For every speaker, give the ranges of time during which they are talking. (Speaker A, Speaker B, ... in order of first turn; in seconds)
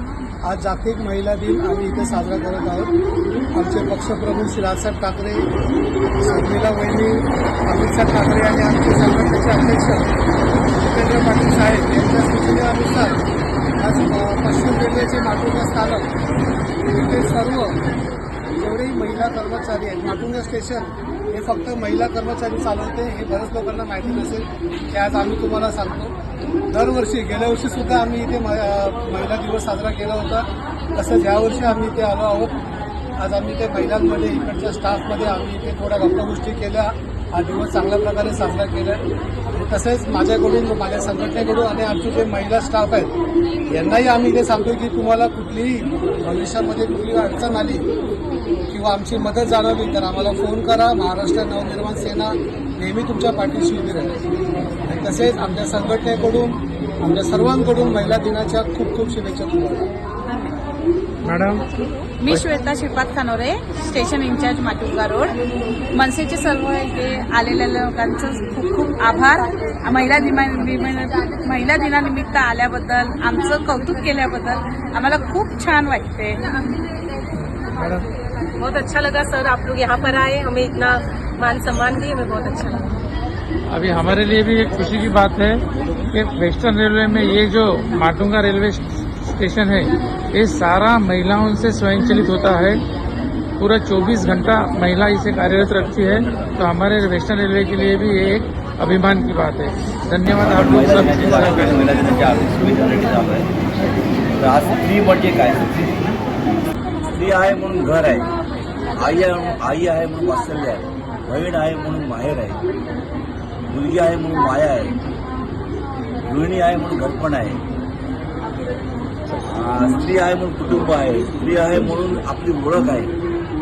Speaker A: 0.4-2.9, 3.5-5.5, 6.2-10.1, 10.6-13.2, 13.8-16.1, 16.9-17.8, 18.5-26.1, 26.7-32.5, 33.2-43.1, 43.7-47.9, 48.7-54.2, 54.9-59.9
Speaker B: 61.3-61.6, 77.6-78.0, 83.7-92.8, 93.6-101.8
Speaker C: 62.2-65.4, 65.9-76.4
Speaker D: 78.6-82.9
Speaker E: 100.4-103.5, 104.4-106.1, 107.1-108.3, 109.0-112.6, 113.7-115.0, 116.2-117.6, 119.4-123.1